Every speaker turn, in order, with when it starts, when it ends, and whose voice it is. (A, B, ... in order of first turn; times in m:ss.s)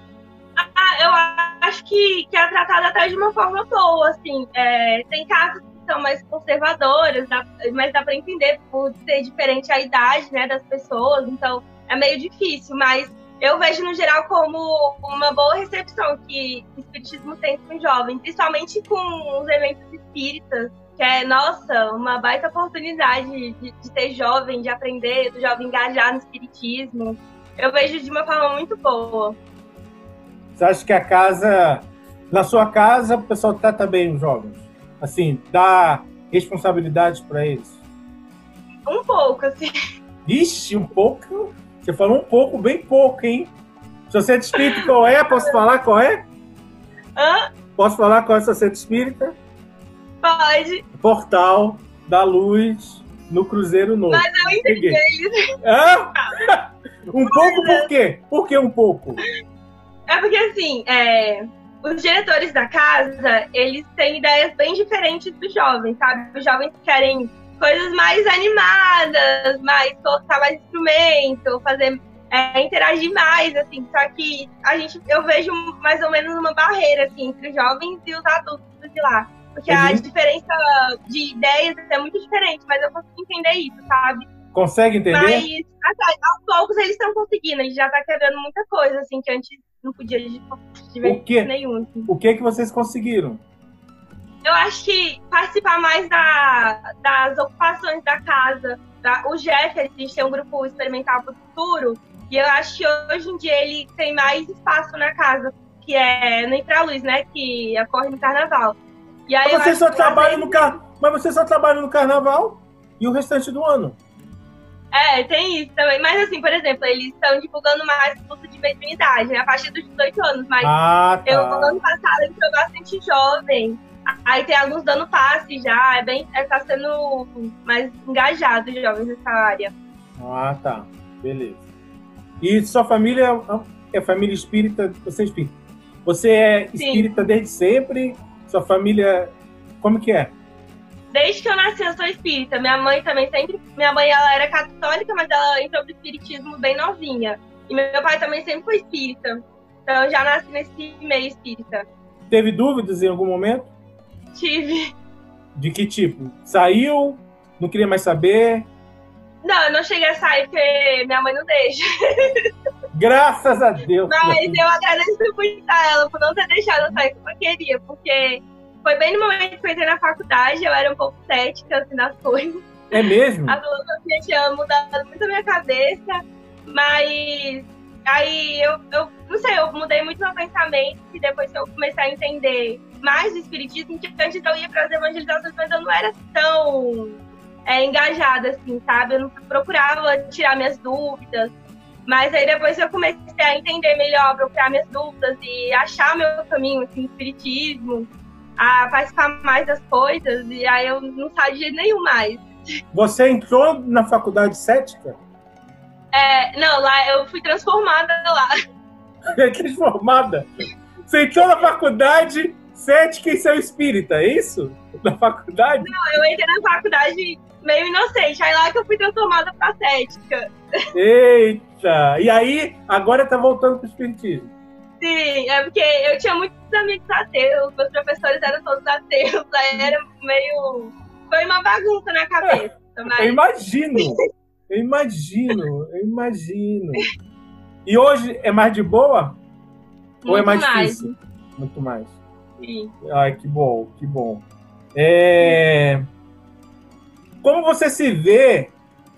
0:00.6-0:29.4 A
0:30.6-0:37.8 B
0:38.9-0:39.7 A
0:40.2-0:43.5 B
0:44.1-0:46.2 B
0:44.6-0:44.8 A
0:47.2-0:47.5 A
0:47.8-0:49.4 B
0:50.2-0:50.8 A
0:51.0-0:55.0 B
0:54.1-0:55.4 A
0:55.6-0:59.2 B
0:57.2-0:57.9 A
1:00.1-1:24.3 A
1:19.7-1:20.0 B
1:24.5-1:25.5 B
1:25.1-1:32.1 A
1:31.0-1:31.5 B
1:32.0-1:33.4 B
1:34.4-1:50.8 A
1:49.4-1:54.0 B
1:54.9-2:00.7 A
2:00.6-2:01.8 B
2:01.2-2:09.7 A
2:10.2-2:11.6 B
2:12.4-2:20.3 B
2:16.8-2:17.1 A
2:21.1-2:31.8 A
2:32.3-2:33.7 B
2:34.3-2:34.9 A
2:35.6-2:38.7 B
2:39.4-2:42.5 A
2:42.9-2:44.6 B
2:44.1-2:52.9 A
2:52.9-2:53.6 B
2:53.5-3:11.5 A
3:12.0-3:22.5 A
3:22.9-3:25.2 B
3:26.1-3:28.5 A
3:29.3-3:30.5 B
3:31.0-3:35.9 B
3:35.8-3:40.5 A
3:40.9-3:44.5 B
3:45.0-3:53.4 A
3:53.1-3:57.1 B
3:57.8-3:59.4 B
4:00.2-4:01.1 A
4:00.3-4:02.2 B
4:02.6-4:02.9 A
4:03.0-4:06.0 B
4:07.4-4:08.7 B